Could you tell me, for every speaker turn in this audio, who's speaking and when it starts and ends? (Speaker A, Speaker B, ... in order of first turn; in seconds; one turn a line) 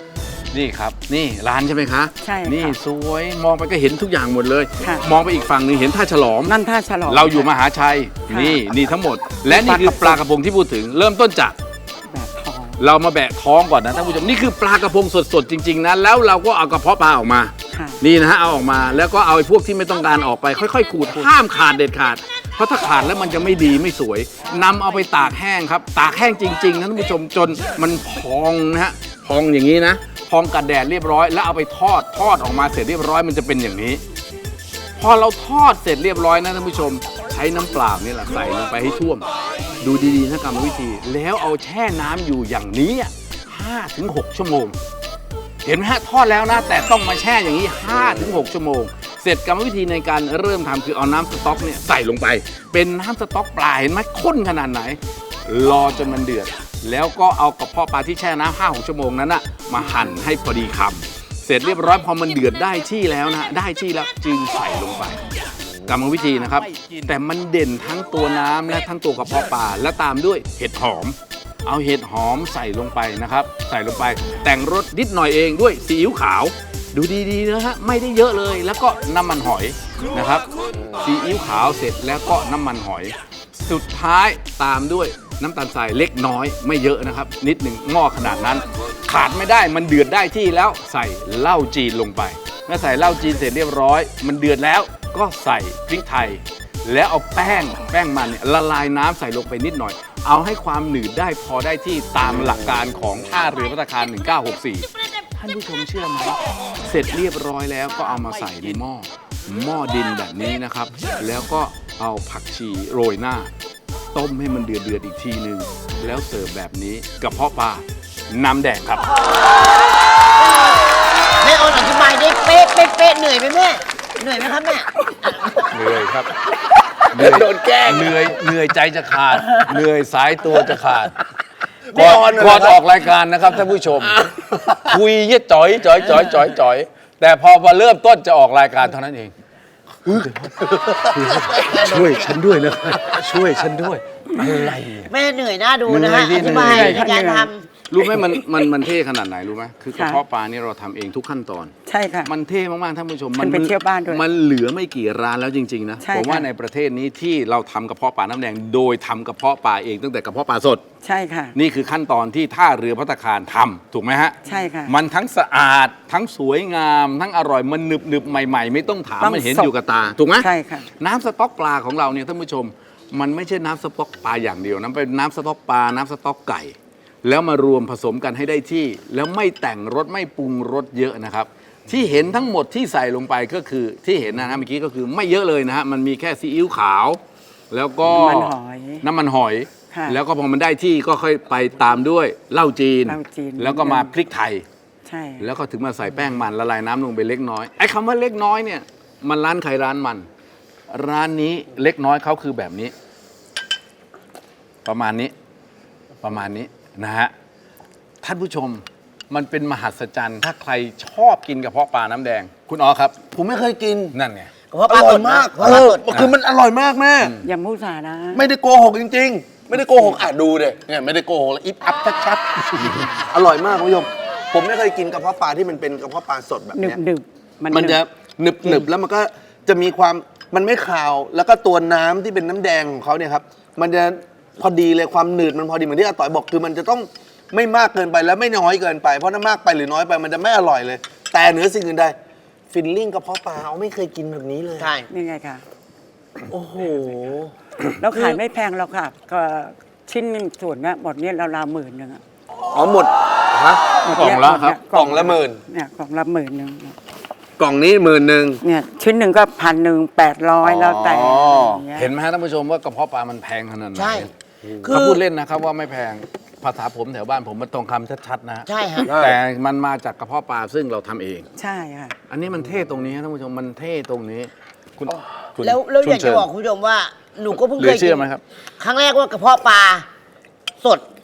Speaker A: 0.5-11.6
Speaker B: 2.2-2.8
Speaker B: 4.8-5.0
Speaker B: 6.5-7.5
Speaker B: 8.3-8.7
Speaker B: 9.4-10.2
Speaker B: 12.1-12.8
Speaker A: 12.8-34.0
Speaker B: 17.7-18.0
Speaker B: 24.4-25.2
Speaker A: 35.0-39.3
Speaker A: 39.8-44.8
Speaker A: 45.6-113.5
Speaker C: 65.7-65.9
Speaker C: 80.7-81.0
Speaker A: 114.1-119.1
Speaker D: 120.4-120.8
Speaker D: 121.4-125.8
Speaker A: 125.7-126.3
Speaker C: 127.1-128.2
Speaker A: 127.1-131.2
Speaker C: 131.9-132.8
Speaker A: 131.9-134.3
Speaker C: 134.2-134.9
Speaker A: 134.8-139.3
Speaker A: 140.0-145.1
Speaker C: 140.7-141.0
Speaker D: 141.5-142.2
Speaker D: 145.1-147.7
Speaker A: 145.8-147.0
Speaker B: 146.4-147.5
Speaker A: 147.9-151.7
Speaker B: 149.9-150.2
Speaker B: 151.8-152.3
Speaker A: 152.2-160.8
Speaker B: 153.4-154.2
Speaker B: 156.0-156.5
Speaker B: 161.0-161.6
Speaker A: 161.5-187.2
Speaker B: 164.4-164.9
Speaker B: 169.2-169.7
Speaker B: 170.3-170.9
Speaker A: 187.7-194.6
Speaker B: 188.1-189.0
Speaker B: 189.9-190.2
Speaker B: 193.1-194.1
Speaker B: 195.0-195.5
Speaker A: 195.4-200.3
Speaker A: 200.9-202.9
Speaker A: 204.8-205.3
Speaker A: 206.2-207.3
Speaker A: 208.2-213.3
Speaker C: 213.3-214.2
Speaker A: 214.1-214.5
Speaker D: 214.7-216.1
Speaker C: 214.9-217.3
Speaker A: 217.2-217.5
Speaker B: 217.4-218.4
Speaker C: 218.3-227.0
Speaker B: 219.7-220.2
Speaker B: 226.7-228.0
Speaker C: 227.7-242.2
Speaker B: 228.6-228.9
Speaker C: 242.7-244.9
Speaker D: 244.8-245.1
Speaker B: 245.1-245.6
Speaker C: 246.5-247.5
Speaker B: 247.9-252.2
Speaker C: 252.7-253.8
Speaker B: 254.0-257.0
Speaker A: 254.1-254.8
Speaker C: 254.9-255.6
Speaker C: 257.6-258.6
Speaker B: 258.6-262.1
Speaker C: 260.6-261.8
Speaker A: 261.9-264.3
Speaker D: 263.9-264.3
Speaker C: 264.6-264.9
Speaker D: 264.8-265.2
Speaker A: 264.9-271.5
Speaker D: 268.7-269.2
Speaker C: 269.0-269.4
Speaker B: 271.6-272.1
Speaker A: 272.3-276.5
Speaker D: 275.6-278.2
Speaker A: 277.8-278.4
Speaker D: 278.8-280.1